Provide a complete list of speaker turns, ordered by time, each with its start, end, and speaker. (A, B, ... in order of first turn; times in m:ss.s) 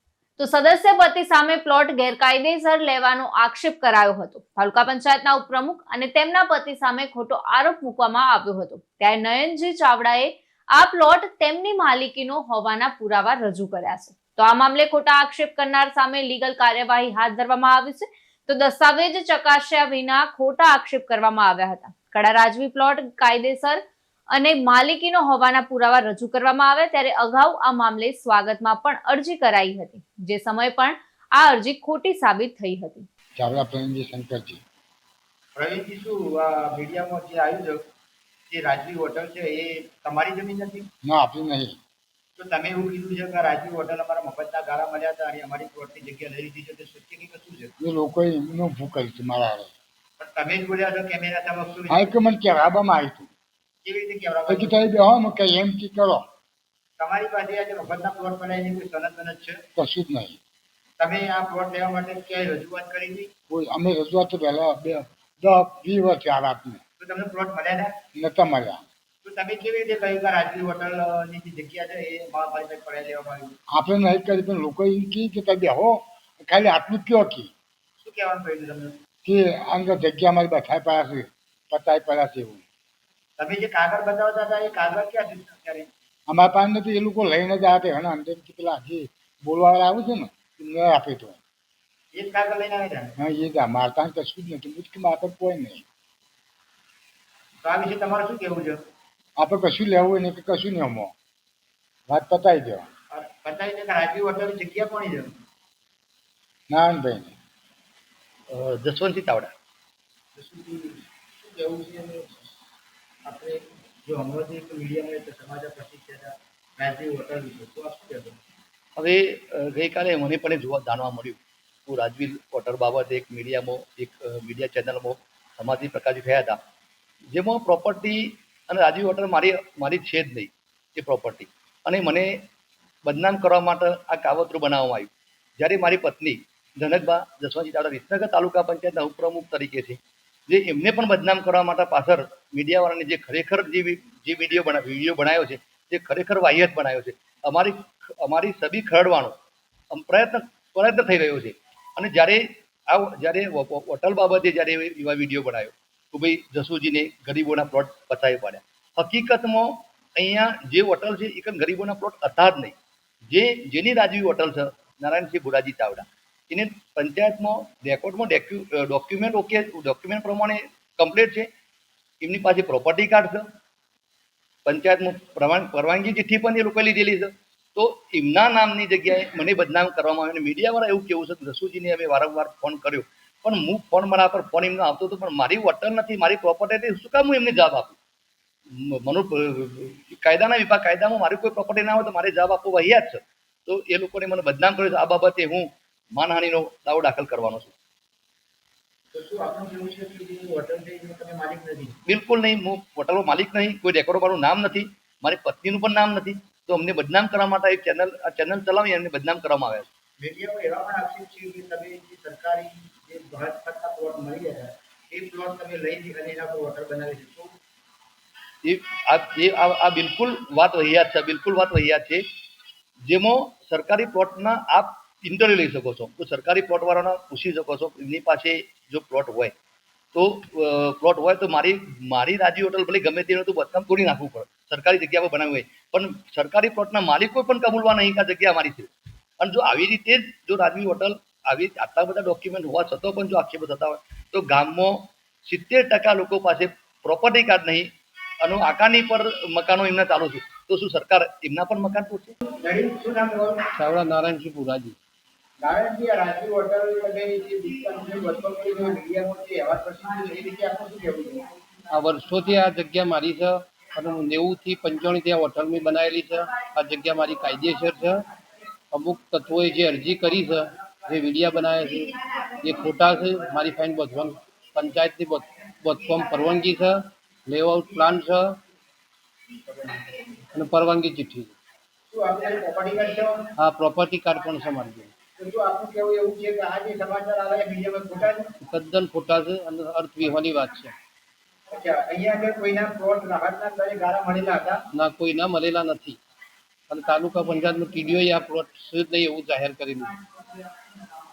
0:00.4-0:33.1 A
0:33.4-0:34.6 B
0:35.5-0:37.8 C
0:38.5-0:40.9 C
0:41.0-0:41.8 B
0:42.4-0:47.7 C
0:47.8-0:49.7 B
0:50.2-0:52.1 C
0:51.9-0:53.3 B
0:53.8-0:54.8 C
0:54.5-0:56.2 B
0:57.0-0:59.6 C
0:59.8-1:00.4 B
1:01.0-1:03.3 C
1:03.5-1:06.8 B
1:07.0-1:08.0 C
1:08.1-1:08.8 B
1:09.2-1:13.5 C
1:13.7-1:17.5 B
1:18.0-1:19.0 C
1:19.2-1:22.6 B
1:23.4-1:25.9 C
1:26.3-1:31.4 B
1:32.1-1:33.1 C
1:33.2-1:35.8 B
1:37.6-1:38.8 C
1:39.4-1:41.1 B
1:42.1-1:42.9 B
1:43.1-1:45.3 C
1:46.7-1:47.3 B
1:48.5-1:49.5 D
1:50.3-1:52.3 C
1:53.2-1:58.4 C
1:59.0-2:06.6 D
2:07.3-2:12.3 D
2:13.0-2:29.4 D
2:29.9-2:42.8 D
2:43.3-2:51.5 D
2:52.2-2:53.4 D
2:54.6-3:08.0 D
3:08.8-3:17.7 D
3:19.1-3:22.0 C
3:22.0-3:29.9 D
3:30.2-3:37.5 C
3:38.6-3:42.2 D
3:43.1-3:49.5 D
3:50.1-4:07.9 D
4:08.4-4:12.4 D
4:12.5-4:13.6 C
4:13.7-4:15.0 E
4:15.6-4:21.4 C
4:21.9-4:28.2 E
4:28.9-4:38.6 E
4:40.5-4:41.5 E
4:42.1-4:43.4 C
4:43.6-4:45.1 E
4:45.4-4:48.5 C
4:48.6-4:50.9 E
4:51.7-4:54.8 C
4:54.9-4:56.2 E
4:56.9-5:00.2 E